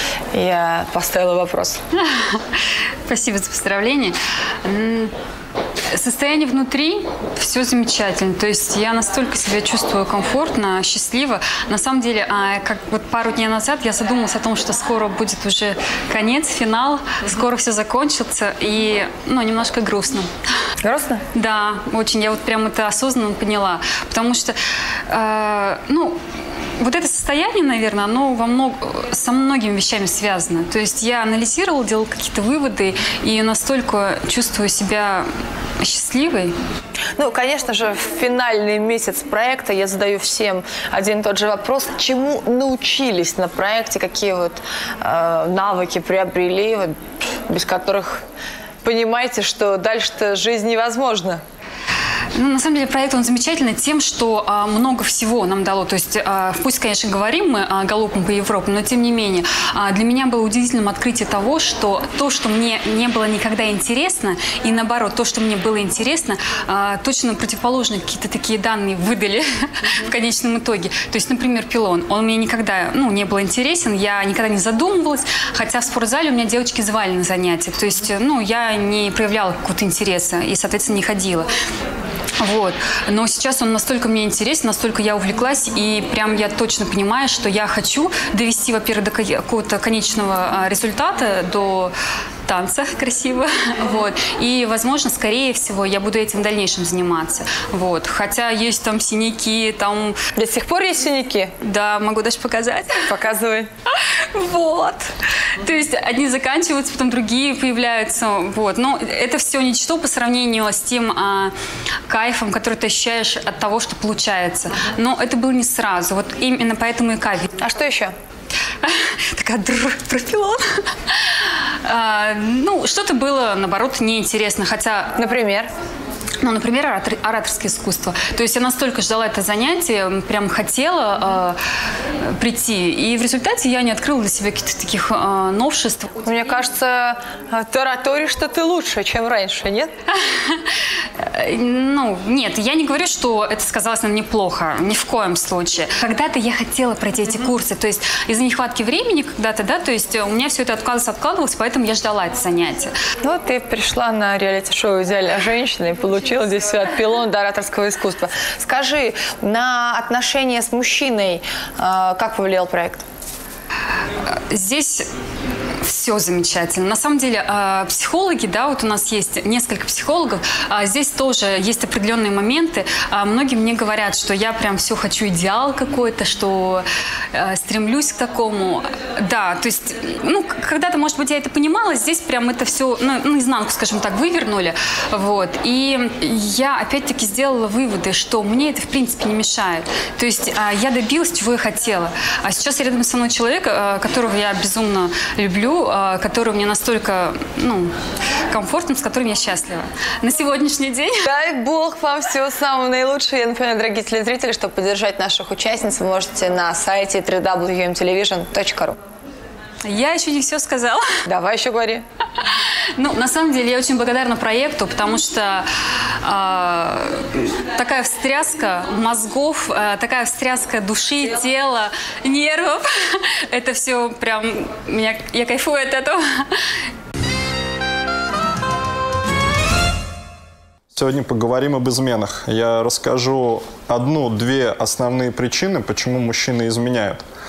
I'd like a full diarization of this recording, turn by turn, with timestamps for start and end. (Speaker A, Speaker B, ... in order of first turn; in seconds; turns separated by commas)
Speaker A: 0.3-1.8, Speaker B: 2.0-2.4, Speaker B: 3.1-5.1, Speaker B: 5.9-20.3, Speaker A: 20.8-21.2, Speaker B: 21.3-24.6, Speaker B: 25.1-26.2, Speaker B: 26.8-35.3, Speaker B: 35.8-36.5, Speaker A: 37.2-48.2, Speaker A: 48.8-51.4, Speaker B: 52.4-81.5, Speaker B: 82.4-91.9, Speaker B: 92.5-100.2, Speaker A: 100.4-101.5, Speaker B: 101.6-103.1, Speaker A: 103.1-103.7, Speaker B: 103.9-111.5, Speaker B: 112.1-117.5, Speaker A: 117.6-118.2, Speaker B: 118.8-125.1, Speaker A: 125.2-125.7, Speaker B: 126.4-131.6, Speaker B: 132.2-136.3, Speaker A: 136.2-139.9, Speaker B: 140.3-140.6, Speaker B: 141.2-152.9, Speaker A: 153.2-163.0, Speaker B: 164.5-165.1, Speaker B: 165.8-197.9, Speaker B: 198.5-201.2, Speaker A: 201.2-209.0, Speaker B: 209.8-211.0, Speaker A: 211.3-212.1, Speaker B: 212.4-215.7, Speaker B: 216.2-226.5, Speaker C: 230.9-237.2